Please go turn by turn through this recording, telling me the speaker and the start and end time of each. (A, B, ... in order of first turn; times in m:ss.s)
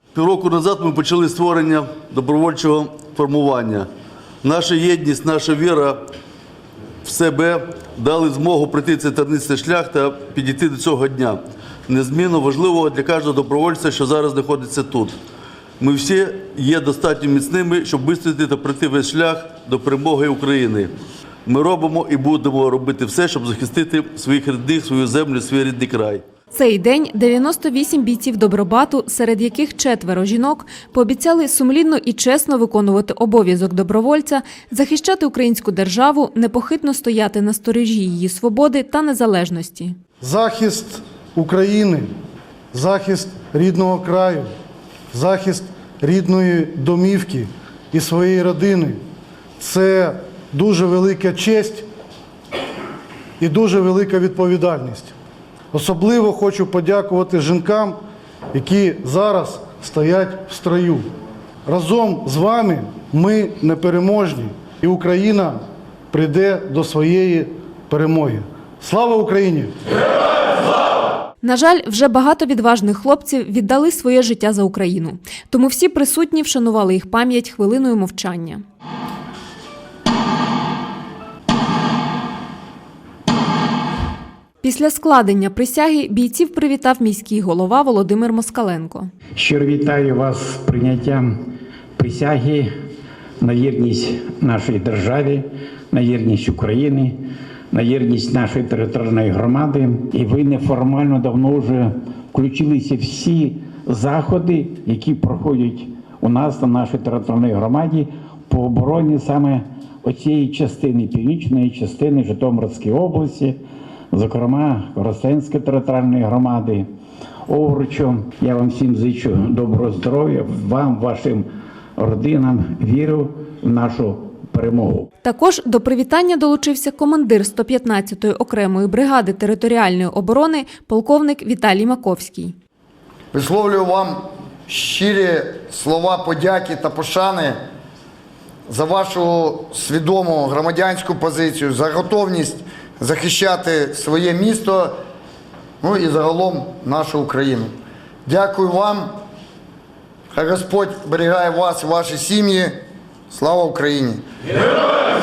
0:00.2-0:03.9 A
0:04.4-0:06.0 A
0:07.0-0:15.2 A
0:15.8-0:20.9 A
0:21.5-0:26.2 A
0:26.5-0:40.0 B
0:40.2-0:42.1 C
0:42.7-0:44.5 C
0:45.1-0:49.0 C
0:49.6-0:51.9 C
0:53.4-0:55.2 C
0:55.7-0:58.0 C
0:58.5-1:01.1 C
1:01.7-1:05.6 C
1:06.1-1:09.7 C
1:11.4-1:18.6 B
1:24.6-1:29.1 B
1:29.4-1:31.3 D
1:32.0-1:32.7 D
1:33.4-1:53.6 D
1:54.1-1:56.9 D
1:57.5-2:01.5 D
2:02.0-2:05.1 D
2:05.2-2:12.6 B
2:13.3-2:17.6 E
2:18.7-2:25.0 E
2:25.8-2:27.7 E
2:28.3-2:29.1 E
2:30.3-2:32.8 E
2:33.3-2:34.2 E